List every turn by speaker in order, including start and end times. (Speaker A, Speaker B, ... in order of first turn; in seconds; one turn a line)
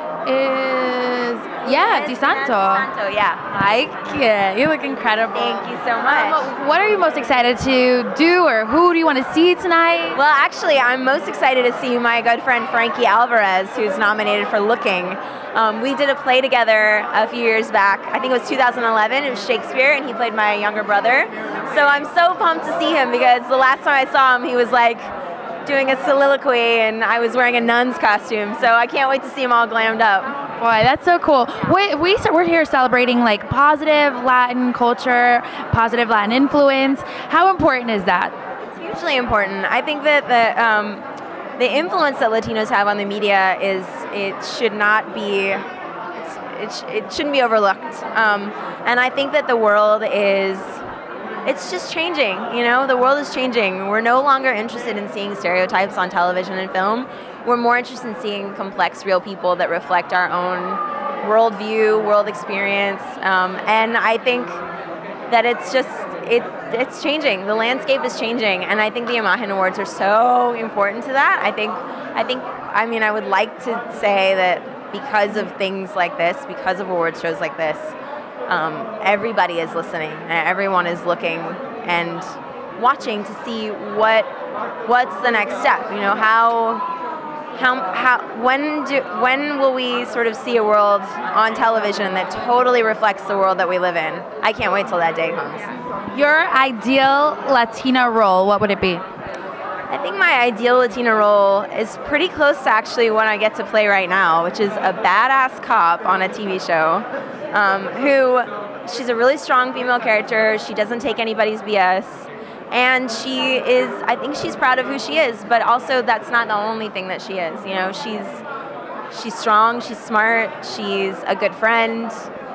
Speaker A: 0.2-2.9
Speaker B: 1.6-3.4
Speaker A: 3.4-10.2
Speaker B: 5.3-6.5
Speaker B: 10.1-25.1
Speaker B: 25.6-30.4
Speaker A: 30.6-38.3
Speaker B: 38.7-41.0
Speaker B: 41.6-45.6
Speaker B: 46.1-50.8
Speaker B: 51.5-64.6
Speaker B: 65.3-77.9
Speaker B: 78.5-84.3
Speaker B: 84.8-86.8
Speaker B: 87.5-95.7
Speaker A: 96.1-99.0
Speaker B: 99.9-118.4
Speaker B: 119.1-122.3